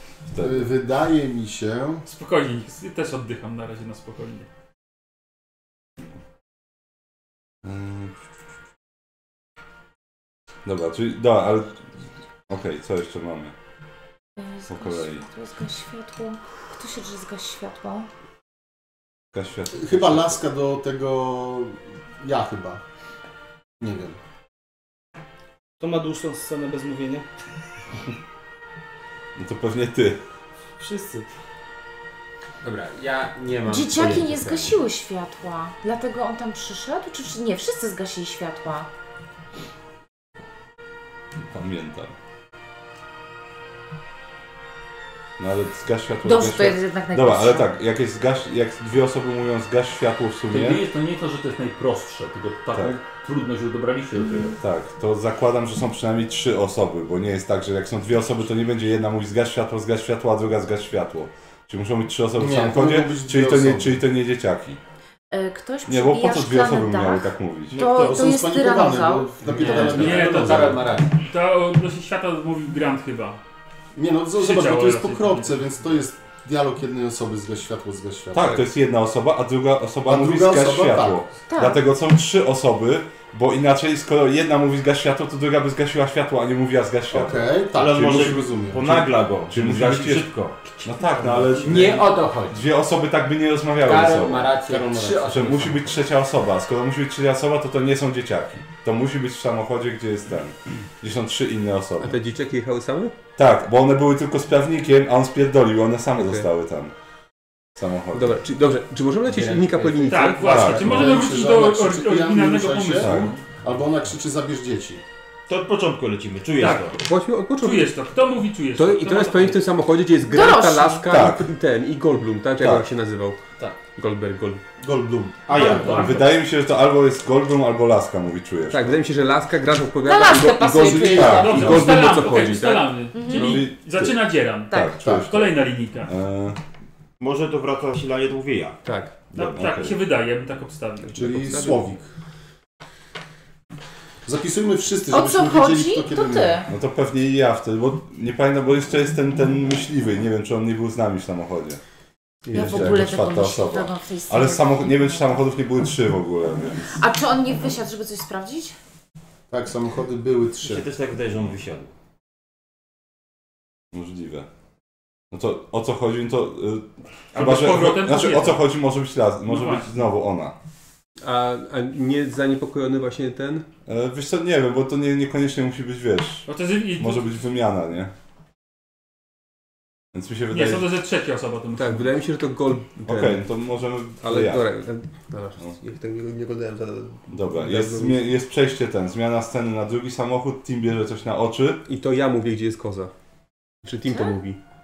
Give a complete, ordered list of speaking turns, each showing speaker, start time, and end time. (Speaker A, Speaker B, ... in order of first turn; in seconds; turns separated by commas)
Speaker A: 0.3-0.7, Speaker B: 0.4-2.0, Speaker C: 2.1-4.5, Speaker A: 7.6-8.1, Speaker A: 10.7-11.8, Speaker A: 12.5-13.5, Speaker D: 14.4-18.1, Speaker A: 14.7-15.2, Speaker A: 19.3-20.4, Speaker B: 19.7-22.8, Speaker B: 23.8-24.2, Speaker E: 25.8-27.3, Speaker A: 29.4-30.2, Speaker E: 30.8-31.3, Speaker F: 32.6-34.8, Speaker D: 33.7-38.9, Speaker A: 41.5-42.1, Speaker A: 45.4-50.8, Speaker D: 46.2-47.7, Speaker G: 50.5-54.6, Speaker A: 52.7-53.0, Speaker A: 54.5-64.8, Speaker B: 62.4-64.0, Speaker D: 65.3-69.8, Speaker A: 65.9-67.8, Speaker H: 67.7-68.2, Speaker B: 67.8-70.9, Speaker F: 69.5-71.2, Speaker C: 69.8-73.4, Speaker B: 74.0-78.6, Speaker C: 74.3-75.6, Speaker A: 78.3-90.3, Speaker B: 80.1-81.2, Speaker D: 81.5-81.9, Speaker B: 87.1-89.0, Speaker H: 87.8-90.6, Speaker A: 90.8-94.6, Speaker F: 91.6-92.6, Speaker F: 93.8-95.8, Speaker B: 94.7-95.4, Speaker A: 95.2-102.2, Speaker I: 102.0-103.2, Speaker A: 103.4-106.9, Speaker I: 106.2-106.5, Speaker A: 107.8-108.4, Speaker I: 108.1-110.5, Speaker F: 109.2-110.3, Speaker C: 110.1-113.4, Speaker B: 110.4-115.0, Speaker A: 110.4-111.2, Speaker A: 112.9-113.4, Speaker H: 115.5-117.0, Speaker C: 116.6-116.9, Speaker I: 116.7-118.0, Speaker C: 117.6-119.6, Speaker I: 118.8-124.6, Speaker D: 120.3-121.2, Speaker A: 121.1-121.5, Speaker A: 122.6-122.9, Speaker B: 124.8-126.2, Speaker H: 125.5-126.4, Speaker D: 125.6-125.8, Speaker C: 125.7-126.2, Speaker A: 125.8-129.0, Speaker I: 128.7-133.6, Speaker D: 130.0-131.8, Speaker B: 130.8-131.4, Speaker A: 130.9-131.9, Speaker C: 131.2-134.8, Speaker D: 133.1-133.6, Speaker A: 133.4-136.6, Speaker B: 135.0-135.3, Speaker C: 135.3-136.1, Speaker H: 137.2-138.8, Speaker I: 138.8-139.2, Speaker C: 139.3-141.3, Speaker H: 139.3-139.7, Speaker A: 139.4-140.0, Speaker I: 141.1-141.8, Speaker B: 141.2-142.1, Speaker B: 144.2-146.6, Speaker D: 145.1-146.7, Speaker A: 146.7-151.8, Speaker I: 152.5-153.1, Speaker A: 152.5-156.9, Speaker D: 152.5-155.4, Speaker D: 157.0-158.8, Speaker B: 159.5-160.9, Speaker H: 160.6-161.9, Speaker A: 163.9-164.5, Speaker A: 165.3-170.5, Speaker C: 167.3-168.7, Speaker C: 169.5-169.9, Speaker I: 171.2-173.7, Speaker A: 173.9-178.1, Speaker C: 176.5-177.4, Speaker A: 180.1-180.9, Speaker C: 180.5-182.1, Speaker I: 181.8-183.5, Speaker A: 183.0-184.7, Speaker I: 184.2-188.3, Speaker A: 187.3-191.8, Speaker I: 191.8-193.1, Speaker I: 193.8-194.6, Speaker D: 194.1-194.3